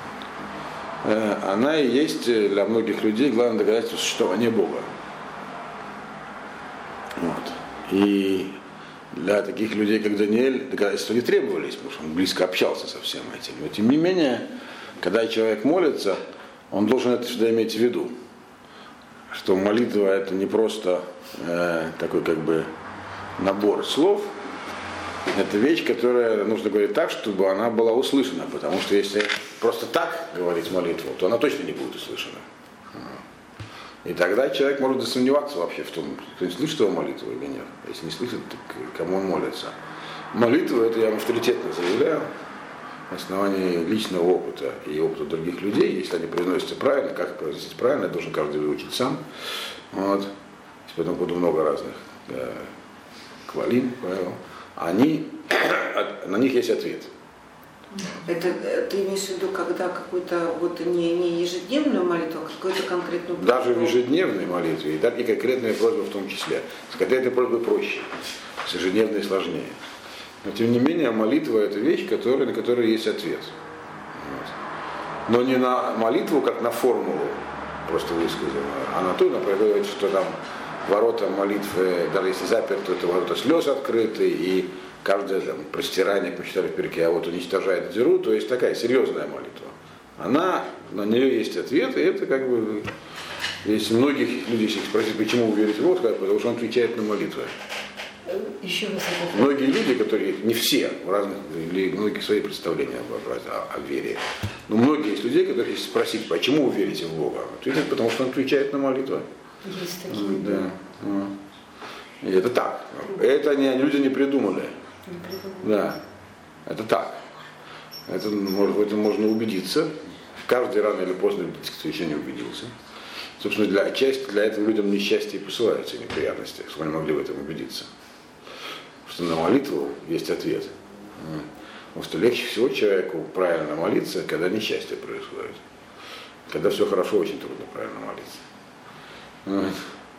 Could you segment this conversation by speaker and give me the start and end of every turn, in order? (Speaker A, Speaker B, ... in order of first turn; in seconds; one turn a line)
Speaker A: 1.0-4.9
Speaker A: 7.2-8.6
Speaker A: 9.1-14.5
Speaker A: 15.0-18.1
Speaker A: 19.3-22.7
Speaker A: 23.4-24.3
Speaker A: 25.3-33.1
Speaker A: 34.0-39.7
Speaker A: 40.3-42.3
Speaker A: 43.1-49.2
Speaker A: 49.9-50.3
Speaker A: 50.9-52.7
Speaker A: 53.5-57.1
Speaker B: 58.2-64.0
Speaker A: 63.4-68.1
Speaker A: 68.6-69.8
Speaker A: 70.4-73.5
Speaker A: 74.2-74.5
Speaker A: 75.3-92.9
Speaker A: 93.6-97.5
Speaker C: 98.2-99.6
Speaker A: 99.3-109.2
Speaker C: 109.6-110.7
Speaker A: 110.1-111.4
Speaker A: 112.2-114.7
Speaker C: 115.0-115.8
Speaker A: 115.6-116.0
Speaker A: 116.7-117.2
Speaker A: 118.1-122.7
Speaker A: 123.4-127.9
Speaker A: 129.1-135.6
Speaker A: 136.5-138.4
Speaker A: 139.4-139.9